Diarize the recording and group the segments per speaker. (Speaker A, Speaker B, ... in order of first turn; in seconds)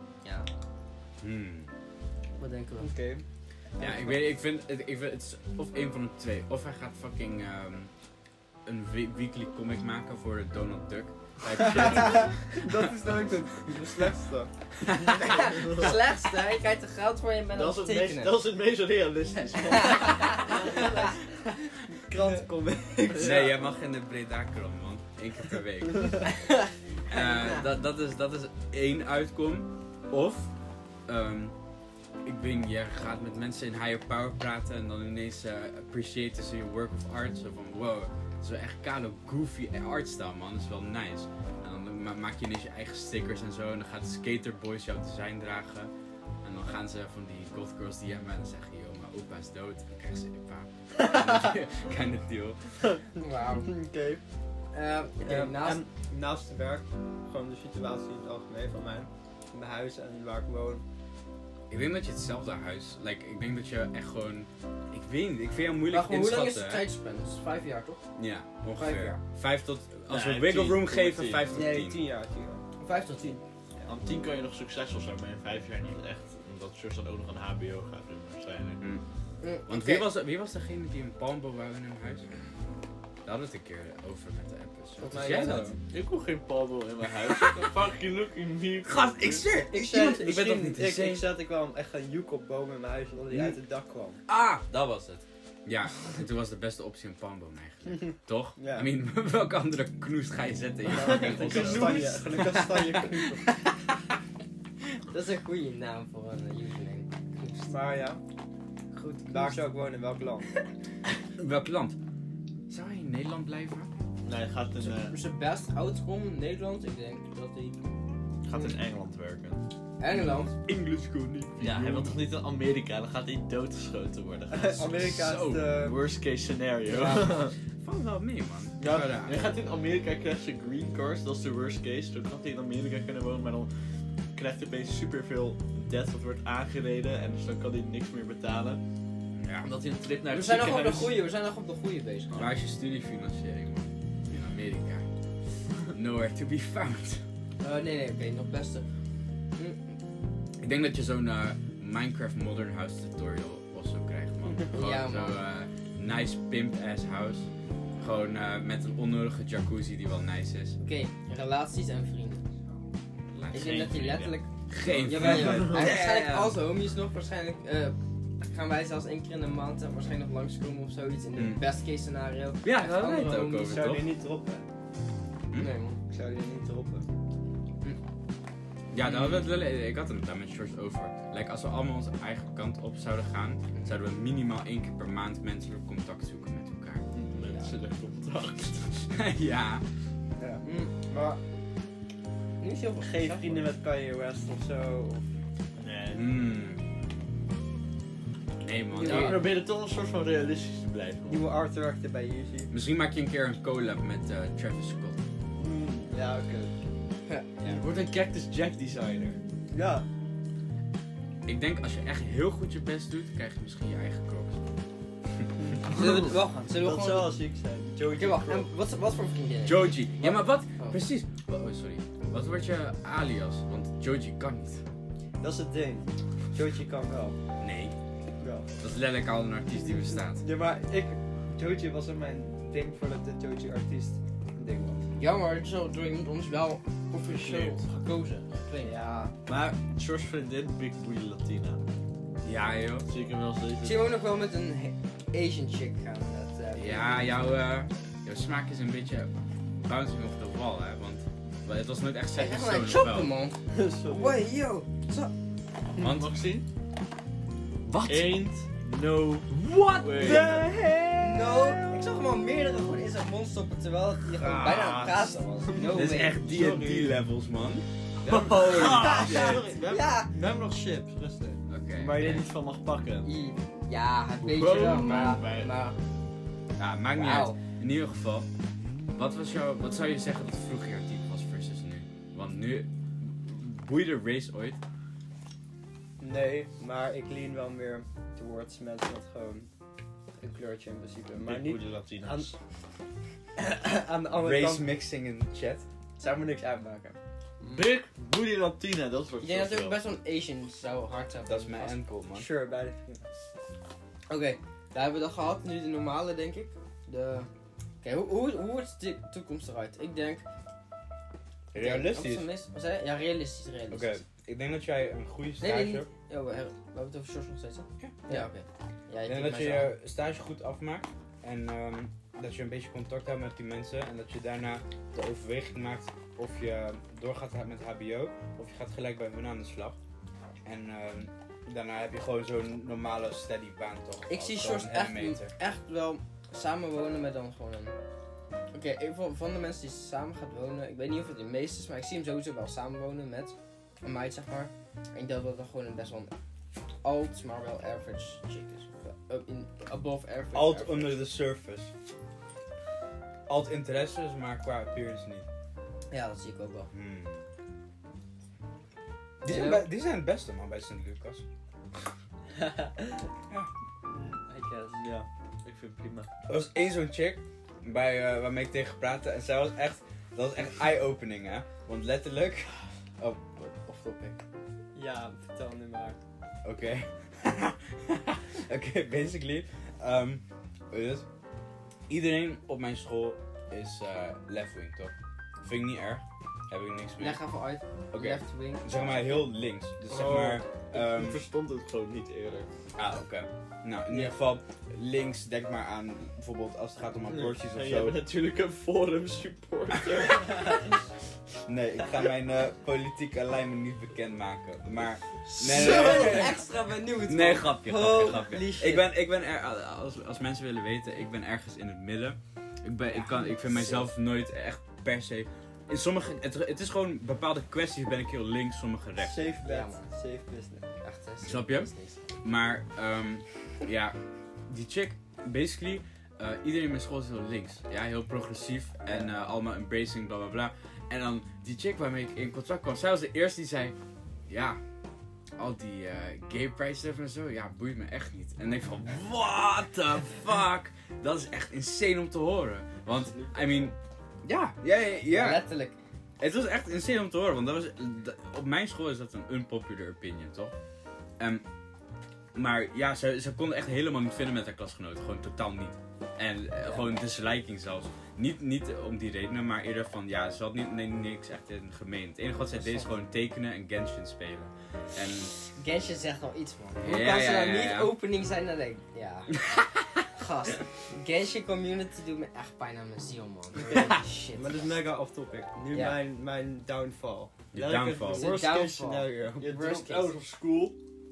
Speaker A: 1.2-1.7, 3.8-7.9, 8.7-12.8, 14.8-15.3, 23.1-26.3, 27.1-30.5, 31.1-31.5, 32.2-45.9, 46.4-52.6, 61.7-66.9, 68.2-72.0, 79.7-82.2, 83.2-85.7, 87.1-87.7, 88.8-91.2, 94.3-103.5, 111.4-112.0, 112.7-113.9, 120.1-122.2, 125.1-125.7, 127.8-129.5, 139.3-139.7, 142.3-145.1, 145.9-147.2, 150.6-157.5, 158.0-160.8, 163.3-163.9, 164.7-166.6, 171.3-171.6, 172.6-174.1, 178.9-187.0, 189.1-189.8, 196.1-196.8, 198.6-199.4, 202.7-205.2, 211.4-214.7, 219.6-224.8, 227.6-227.9, 228.8-230.4, 242.4-243.1, 246.7-253.3, 256.0-256.4, 257.9-258.4, 259.5-260.6, 264.3-269.6, 271.7-272.4, 276.8-278.5, 279.1-284.8, 294.4-295.8, 301.4-302.5, 311.7-312.4, 313.9-316.1, 318.0-318.5, 319.2-330.0, 330.6-335.5, 350.5-351.9, 353.5-355.4, 356.9-357.4, 359.4-361.4, 366.5-374.4, 376.6-381.2, 382.1-387.4, 388.1-391.4, 392.9-398.2, 401.6-406.6, 407.2-419.6, 421.4-421.9, 422.4-424.2, 424.7-433.9, 434.5-434.8, 435.6-445.6, 446.4-450.7, 452.5-465.5, 467.0-468.1, 469.7-470.0, 477.7-478.5
Speaker B: 2.4-2.9, 15.2-18.3, 19.6-21.1, 26.3-27.6, 53.2-53.7, 54.7-55.8, 65.9-68.0, 68.8-69.2, 72.8-73.4, 79.4-80.1, 105.1-107.7, 108.9-109.6, 114.8-117.8, 120.0-120.5, 126.9-127.3, 140.3-142.4, 147.6-148.8, 149.6-149.9, 154.7-155.4, 160.8-162.5, 163.5-164.5, 165.0-173.9, 187.3-187.7, 190.6-190.9, 192.6-193.6, 199.0-199.4, 215.9-217.3, 218.2-221.0, 235.2-238.9, 243.8-247.4, 252.4-255.3, 260.2-260.5, 261.2-266.5, 269.0-270.3, 273.2-276.0, 277.1-277.6, 299.4-301.9, 304.3-307.5, 308.0-310.4, 311.7-314.2, 315.6-319.9, 334.3-337.9, 338.7-346.3, 347.0-351.3, 356.1-356.9, 359.4-359.9, 387.2-389.4, 405.6-408.8, 413.2-414.0, 419.6-420.0, 421.0-422.2, 445.3-446.0, 462.8-463.1, 465.7-469.6, 470.3-474.9, 475.9-476.2, 478.2-480.3
Speaker C: 2.8-3.2, 3.8-4.2, 11.5-16.0, 20.3-21.3, 21.8-23.6, 51.0-51.3, 52.8-54.2, 55.2-60.8, 71.5-72.6, 85.0-85.8, 89.7-94.2, 98.6-98.9, 100.9-103.4, 107.7-108.2, 109.3-110.5, 124.5-126.0, 165.2-165.6, 172.7-174.6, 175.6-177.1, 190.4-191.4, 193.0-195.2, 201.3-202.7, 205.6-206.7, 209.7-210.0, 215.8-218.7, 225.4-227.3, 228.4-228.7, 229.8-235.0, 238.8-239.3, 253.7-254.3, 260.2-261.8, 265.6-266.1, 268.3-271.6, 286.2-289.7, 290.4-292.5, 293.6-294.9, 296.2-297.9, 302.3-303.2, 362.6-363.2, 364.1-365.0, 374.9-376.2, 405.9-406.5, 408.1-409.0, 419.2-420.9, 474.0-479.7
Speaker D: 15.5-15.9, 17.5-21.1, 70.1-71.5, 73.8-78.8, 85.9-89.4, 101.0-102.1, 114.2-115.2, 118.4-119.6, 121.6-127.5, 128.8-133.7, 134.3-138.8, 139.6-141.1, 163.5-164.3, 164.9-165.8, 187.1-189.0, 195.8-196.4, 199.0-201.5, 207.6-209.4, 239.4-241.8, 243.1-244.0, 256.0-256.6, 258.0-260.6, 268.3-270.0, 272.0-273.3, 274.4-275.7, 291.3-292.5, 297.7-300.0, 365.0-366.3, 390.1-392.7, 397.3-400.9, 405.5-406.3, 479.6-480.9